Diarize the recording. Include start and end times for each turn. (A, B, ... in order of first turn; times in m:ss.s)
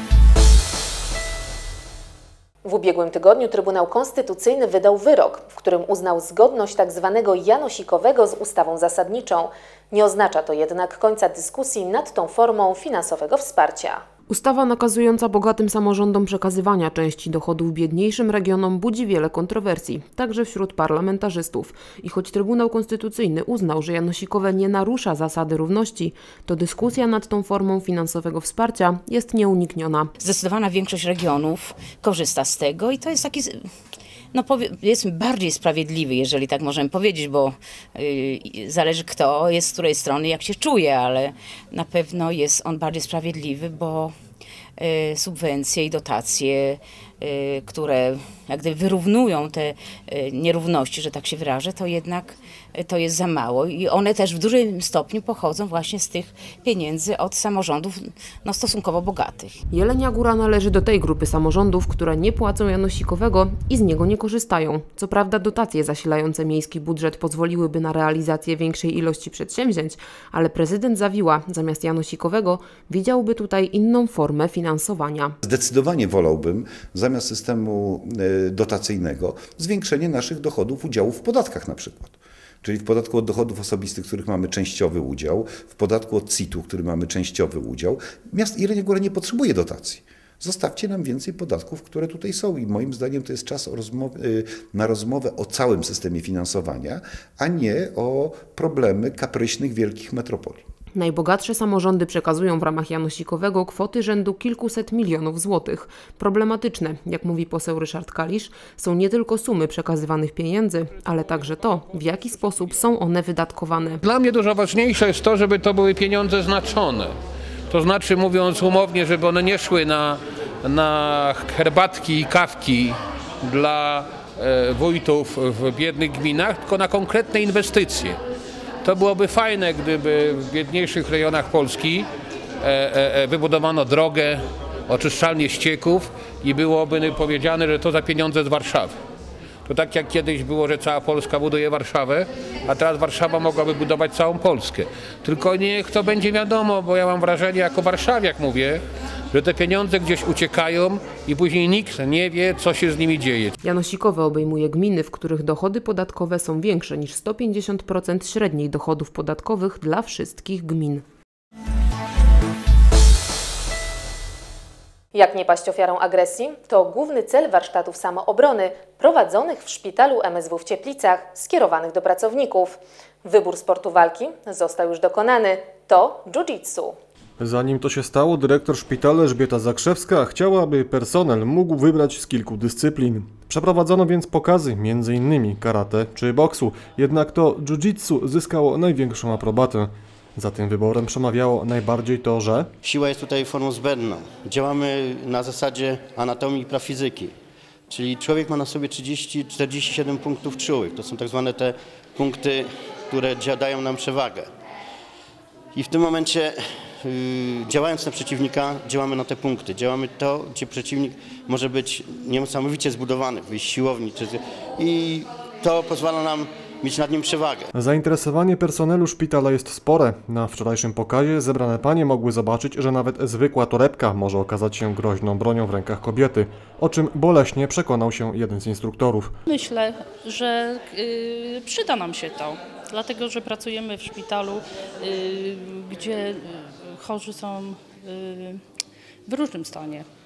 0:02.6-0:14.0 A
0:14.3-0:30.1 B
0:30.2-0:33.6 C
0:34.3-0:44.1 C
0:44.8-0:59.6 C
0:59.7-1:15.4 B
1:15.4-1:40.6 D
1:40.9-1:54.0 B
1:54.0-1:57.1 E
1:57.7-2:08.2 E
2:08.8-2:12.1 E
2:12.6-2:19.0 E
2:19.6-2:33.5 E
2:33.6-2:41.0 B
2:45.1-2:56.9 A
2:57.4-3:12.7 F
3:12.8-3:17.3 G
3:17.9-3:24.5 G
3:25.7-3:37.7 G
3:37.7-3:49.3 F
3:49.5-3:58.6 H
3:59.3-4:00.1 H